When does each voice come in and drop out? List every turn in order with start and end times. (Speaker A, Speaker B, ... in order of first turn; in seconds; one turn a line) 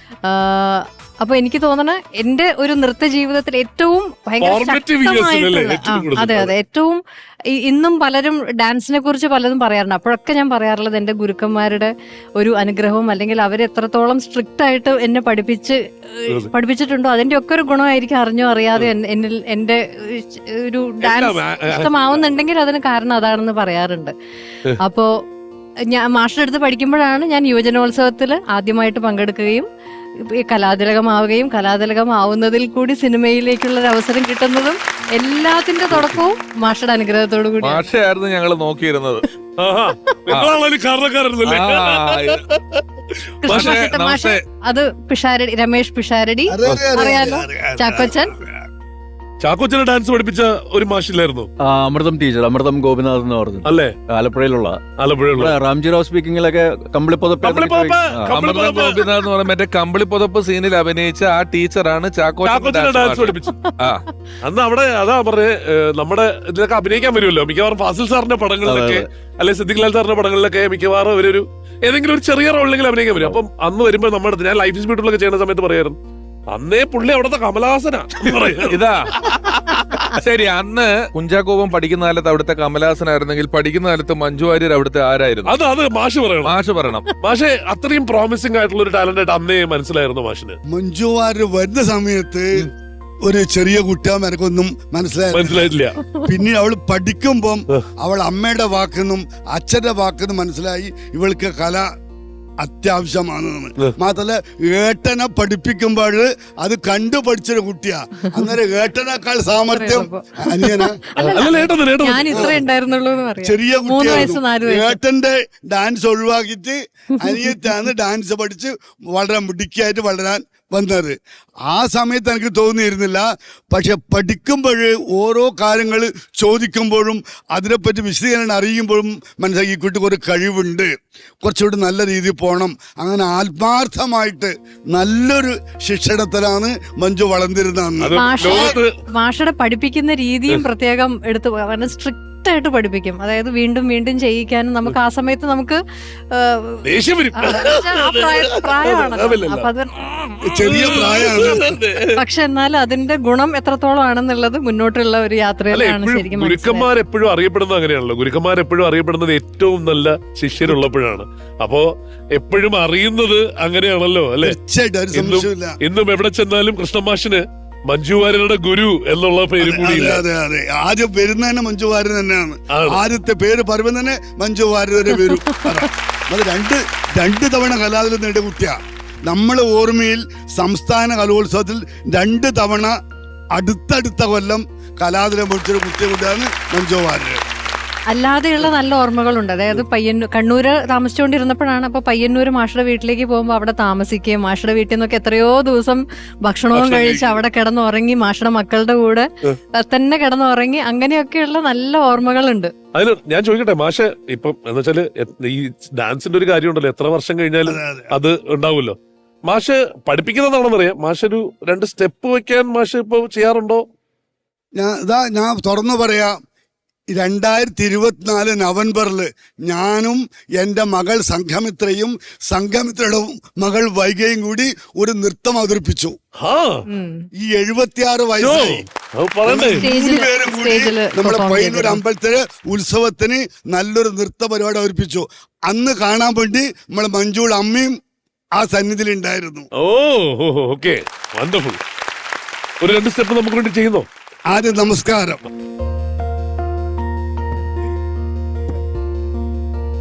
Speaker A: 0.2-24.1
Speaker B: 4.4-6.5
Speaker B: 21.0-22.3
Speaker A: 24.8-25.1
Speaker A: 25.9-29.7
Speaker A: 30.4-37.9
Speaker C: 37.6-39.2
Speaker B: 39.6-42.8
Speaker C: 40.3-40.6
Speaker C: 41.5-42.4
Speaker A: 43.4-48.3
Speaker B: 43.4-43.8
Speaker C: 43.5-44.4
Speaker D: 46.5-48.5
Speaker B: 49.4-51.5
Speaker E: 51.6-54.8
Speaker B: 53.6-54.0
Speaker B: 55.0-55.5
Speaker E: 55.4-58.3
Speaker B: 57.4-59.0
Speaker C: 58.3-64.0
Speaker B: 62.4-63.6
Speaker B: 64.4-76.0
Speaker E: 68.7-69.1
Speaker B: 76.5-78.8
Speaker C: 78.3-85.6
Speaker B: 85.5-86.5
Speaker C: 86.5-87.1
Speaker B: 87.2-90.6
Speaker D: 90.7-92.7
Speaker D: 93.2-101.9
Speaker B: 95.3-96.0
Speaker D: 102.6-111.0
Speaker A: 109.7-115.0
Speaker B: 111.2-112.6
Speaker D: 112.3-112.6
Speaker D: 113.4-121.2
Speaker A: 117.2-117.5
Speaker D: 121.7-130.9
Speaker D: 131.4-138.8
Speaker B: 138.0-138.9
Speaker A: 138.2-145.8
Speaker A: 146.3-146.8
Speaker B: 146.8-149.7
Speaker A: 147.4-150.1
Speaker D: 150.4-151.8
Speaker B: 150.6-152.2
Speaker A: 152.2-156.9
Speaker B: 155.7-164.6
Speaker D: 164.4-165.7
Speaker B: 165.1-170.2
Speaker D: 169.6-182.9
Speaker B: 172.7-173.0
Speaker D: 183.6-187.4
Speaker A: 188.1-202.7
Speaker B: 196.7-197.4
Speaker B: 202.9-213.8
Speaker D: 207.7-208.1
Speaker D: 214.8-216.3
Speaker D: 217.1-226.2
Speaker B: 226.4-226.7
Speaker A: 226.9-227.2
Speaker D: 227.4-228.8
Speaker B: 228.4-229.8
Speaker D: 229.4-237.9
Speaker A: 229.8-232.0
Speaker D: 238.6-239.7
Speaker B: 239.8-241.8
Speaker B: 242.8-244.1
Speaker D: 244.5-245.4